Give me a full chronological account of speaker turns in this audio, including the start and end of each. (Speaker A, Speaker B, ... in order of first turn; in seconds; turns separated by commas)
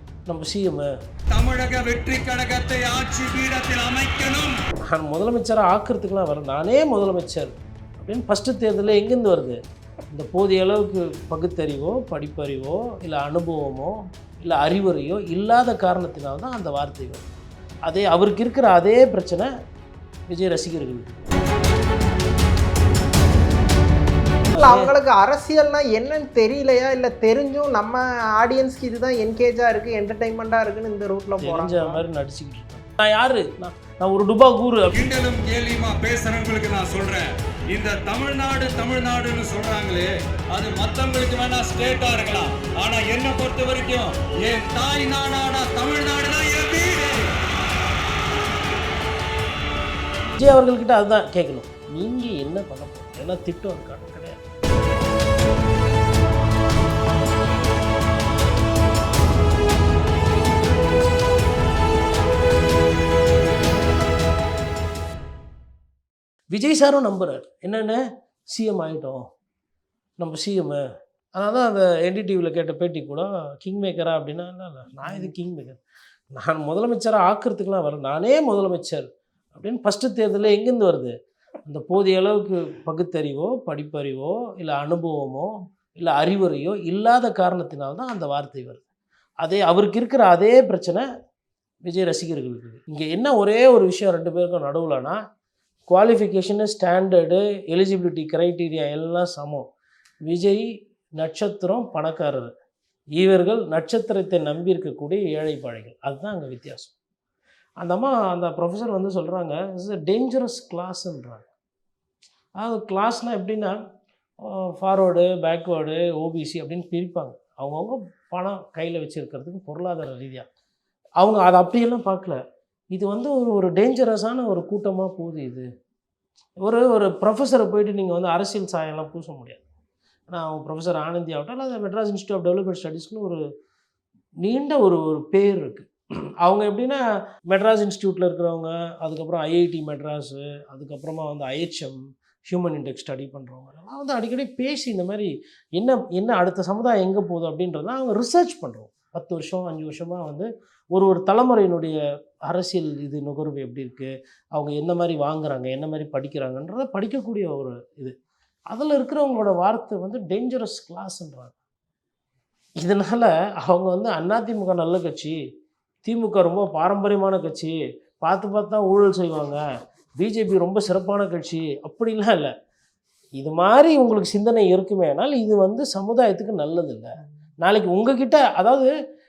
Speaker A: 0.3-0.9, Speaker B: 1.3-4.5, Speaker A: 4.8-9.6, Speaker A: 10.1-17.3, Speaker A: 17.9-19.5, Speaker A: 20.3-21.1, Speaker A: 24.5-25.0, Speaker C: 24.6-32.0, Speaker A: 31.4-35.0, Speaker B: 34.9-47.2, Speaker A: 50.4-54.4, Speaker A: 66.5-68.0, Speaker A: 68.5-69.2, Speaker A: 70.2-70.8, Speaker A: 71.3-75.8, Speaker A: 76.3-81.2, Speaker A: 81.7-88.8, Speaker A: 89.4-91.1, Speaker A: 91.8-95.2, Speaker A: 95.9-99.7, Speaker A: 100.3-100.7, Speaker A: 101.2-102.5, Speaker A: 103.2-107.0, Speaker A: 107.8-111.5, Speaker A: 112.6-113.8, Speaker A: 114.4-120.5, Speaker A: 121.2-122.4, Speaker A: 122.9-125.7, Speaker A: 126.6-129.6, Speaker A: 130.3-133.4, Speaker A: 134.4-135.9, Speaker A: 136.4-158.2, Speaker A: 158.7-161.6, Speaker A: 162.8-165.4, Speaker A: 166.0-169.6, Speaker A: 170.2-172.5, Speaker A: 173.4-177.1, Speaker A: 177.6-178.9